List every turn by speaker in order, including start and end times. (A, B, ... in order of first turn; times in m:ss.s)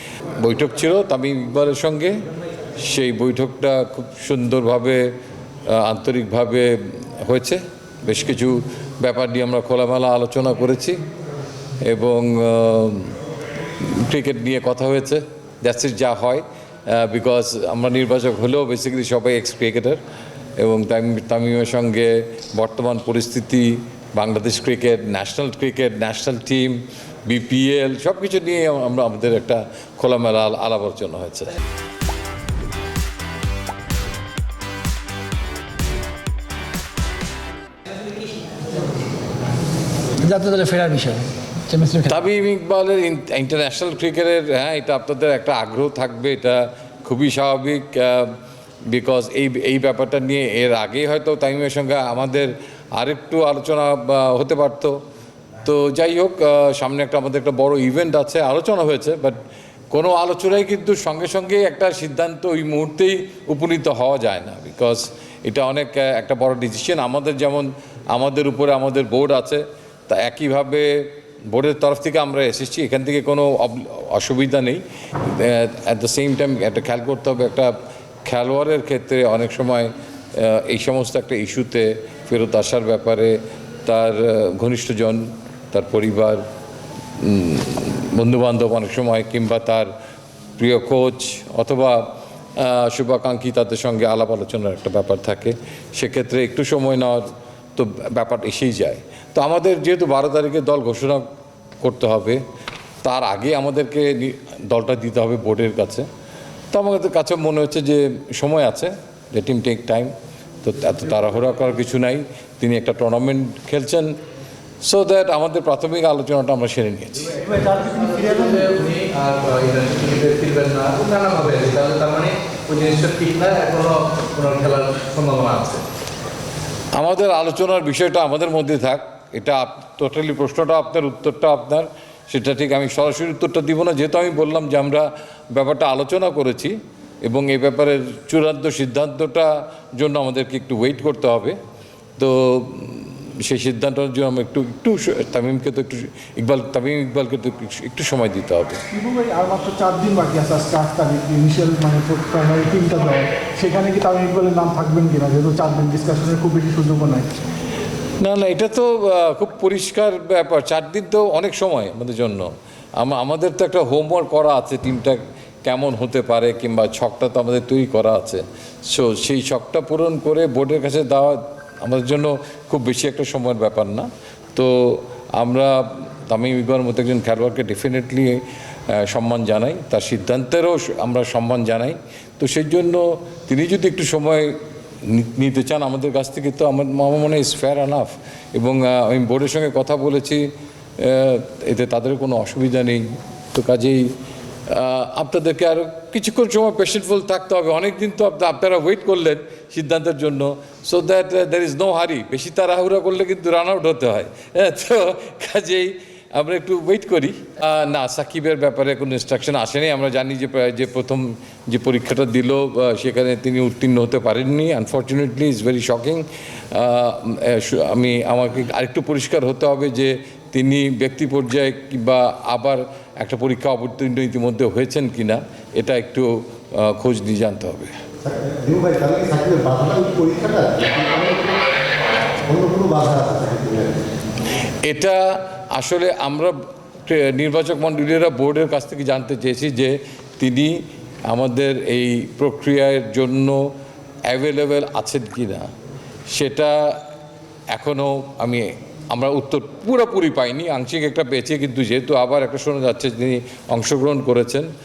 0:00.4-0:02.2 A
0:02.8-0:05.1 A
0:05.7-0:11.0 A
0:11.8-0:13.2 A
0:13.8-0:20.0 A
0:20.6-0:31.5 A
0:40.2-0:42.2 B
0:42.0-0:48.3 A
0:48.9-0:55.0 A
0:55.6-1:17.7 A
1:18.2-1:26.4 A
1:27.2-1:29.9 A
1:30.6-1:41.2 A
1:41.8-1:42.4 A
1:43.0-1:46.1 A
1:46.7-1:54.2 A
1:54.8-1:57.4 A
1:57.4-1:58.6 C
1:58.0-2:05.8 D
2:06.9-2:21.6 A
2:22.2-2:28.8 A
2:28.9-2:37.3 E
2:38.2-3:14.1 A
3:14.7-3:48.0 A
3:48.2-3:51.6 C
3:52.4-3:54.0 C
3:54.8-4:03.7 A
4:04.3-4:05.7 A
4:06.3-4:07.0 A
4:07.7-4:14.7 A